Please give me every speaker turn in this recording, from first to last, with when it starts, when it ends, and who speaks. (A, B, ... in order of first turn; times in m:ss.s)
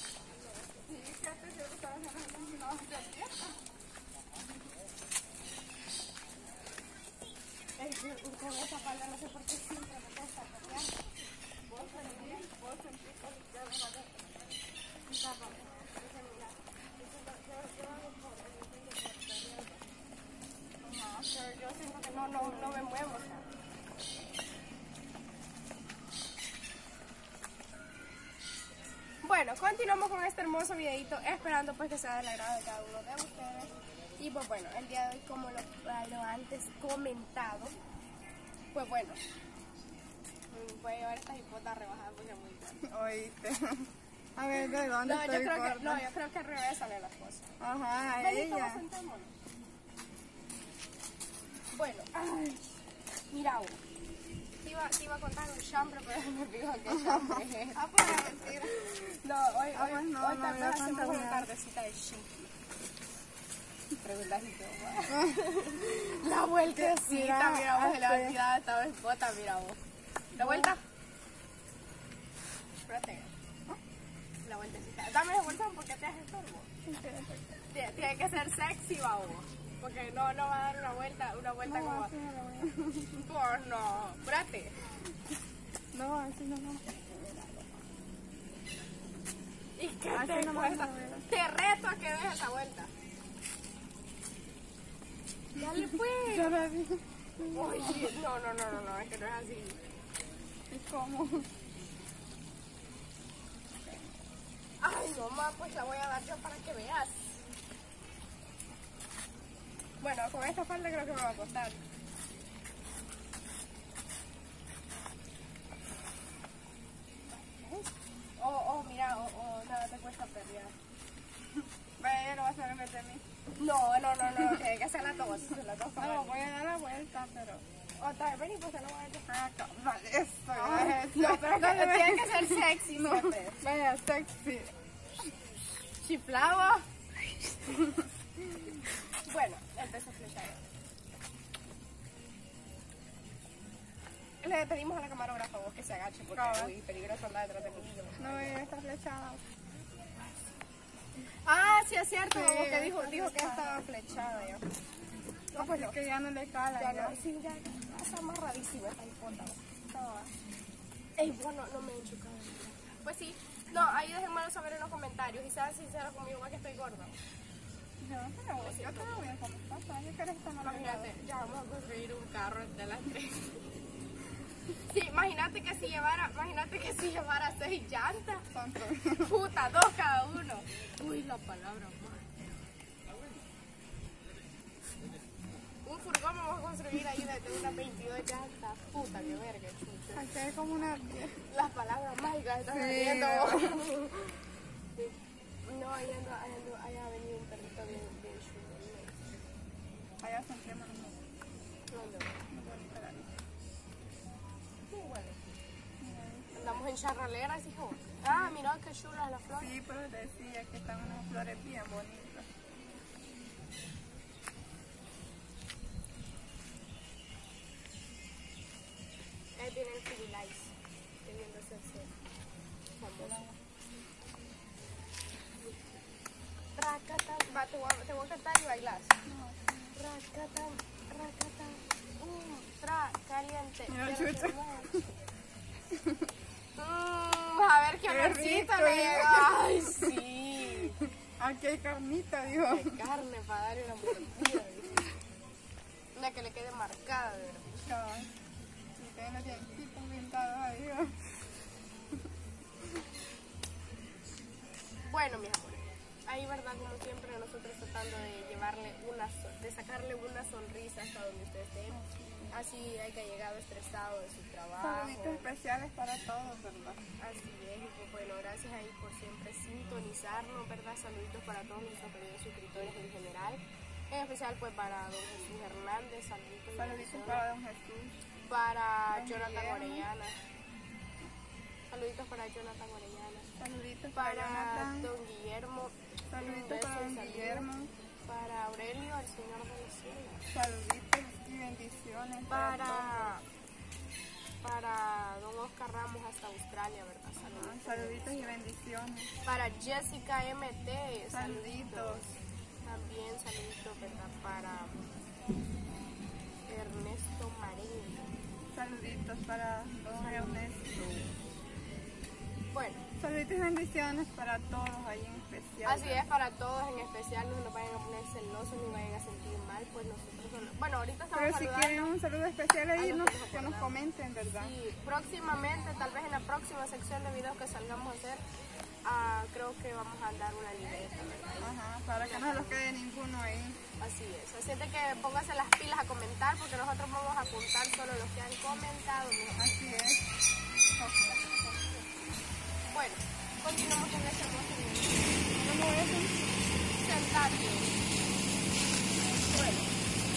0:00.3-0:00.9 A
0:00.9-0:03.6 B
0:07.8-0:10.9 A
0:11.7-0:12.5 A
0:11.7-0:14.3 B
0:15.1-0:19.9 A
0:20.8-0:21.4 B
0:21.2-0:23.5 A
0:22.3-0:22.9 B
0:29.2-0:37.8 A
0:38.7-0:39.2 A
0:40.5-0:42.8 A
0:42.8-0:46.0 B
0:44.7-0:47.5 A
0:47.6-0:48.8 B
0:48.2-0:49.3 A
0:51.7-0:52.6 A
0:53.3-0:53.8 A
0:54.6-1:02.5 A
0:56.9-0:58.7 B
0:59.7-1:01.5 B
1:04.0-1:09.8 A
1:05.1-1:05.5 B
1:06.7-1:08.4 B
1:10.3-1:10.8 B
1:10.3-1:10.8 A
1:12.8-1:13.3 A
1:14.4-1:16.7 A
1:16.9-1:17.6 B
1:17.7-1:22.1 A
1:21.6-1:23.1 B
1:23.1-1:25.0 A
1:25.9-1:27.8 B
1:29.8-1:32.9 A
1:30.1-1:31.3 B
1:35.6-1:36.5 A
1:36.2-1:38.2 B
1:37.4-1:39.8 A
1:40.7-1:41.5 B
1:43.8-1:44.2 B
1:44.8-1:47.5 A
1:50.0-1:51.8 A
1:57.3-2:00.8 A
2:02.0-2:03.2 B
2:03.6-2:06.4 A
2:06.0-2:07.6 B
2:08.0-2:09.3 A
2:09.3-2:14.7 B
2:10.5-2:13.6 A
2:16.0-2:16.9 A
2:17.6-2:18.1 A
2:18.8-2:20.6 A
2:24.4-2:28.6 A
2:26.3-2:26.7 B
2:28.2-2:29.4 B
2:31.3-2:34.6 A
2:32.3-2:33.8 B
2:35.5-2:36.0 A
2:35.6-2:37.2 B
2:36.8-2:39.6 A
2:39.9-2:40.3 B
2:41.2-2:47.2 A
2:48.0-2:51.1 B
2:48.6-2:49.2 A
2:50.6-2:53.7 A
2:54.8-2:58.5 A
2:58.5-2:59.4 B
2:59.2-3:02.3 A
3:05.8-3:10.3 A
3:10.2-3:11.5 B
3:11.5-3:14.4 A
3:12.7-3:13.8 B
3:15.7-3:19.2 A
3:20.2-3:21.2 B
3:21.9-3:22.4 A
3:22.5-3:23.3 B
3:24.9-3:25.5 A
3:26.0-3:26.6 B
3:26.5-3:29.7 A
3:28.3-3:28.6 B
3:29.6-3:32.5 B
3:39.6-3:40.7 A
3:41.2-3:42.1 A
3:43.0-3:43.5 A
3:43.2-3:43.6 B
3:46.8-3:49.2 A
3:49.3-3:50.0 B
3:50.0-3:55.0 A
3:53.9-3:55.0 B
3:55.9-3:56.3 B
3:56.8-4:01.0 A
3:58.0-4:00.2 B
4:00.8-4:03.0 B
4:02.5-4:05.1 A
4:06.2-4:07.9 A
4:07.8-4:08.3 B
4:09.0-4:11.4 B
4:15.0-4:22.0 A
4:21.9-4:22.6 B
4:22.5-4:25.5 A
4:24.8-4:27.0 B
4:27.2-4:37.4 A
4:36.8-4:38.2 B
4:38.5-4:40.4 A
4:39.1-4:40.1 B
4:41.9-4:43.5 A
4:43.6-4:45.1 B
4:44.1-4:47.7 A
4:46.3-4:47.9 B
4:48.2-4:50.4 A
4:50.5-4:53.4 B
4:52.5-4:53.4 A
4:54.6-4:58.6 A
4:57.4-4:59.3 B
4:59.4-5:05.0 A
5:01.3-5:02.3 B
5:06.6-5:08.3 A
5:08.7-5:11.4 B
5:10.2-5:10.6 A
5:12.7-5:13.0 A
5:13.2-5:16.2 B
5:15.8-5:22.1 A
5:21.3-5:24.8 B
5:23.0-5:24.0 A
5:24.6-5:28.4 A
5:29.0-5:32.8 A
5:31.6-5:33.8 B
5:34.0-5:39.8 A
5:39.6-5:40.2 B
5:41.0-5:41.8 B
5:42.9-5:45.5 A
5:45.5-5:46.5 B
5:47.0-5:48.0 A
5:49.5-5:49.9 A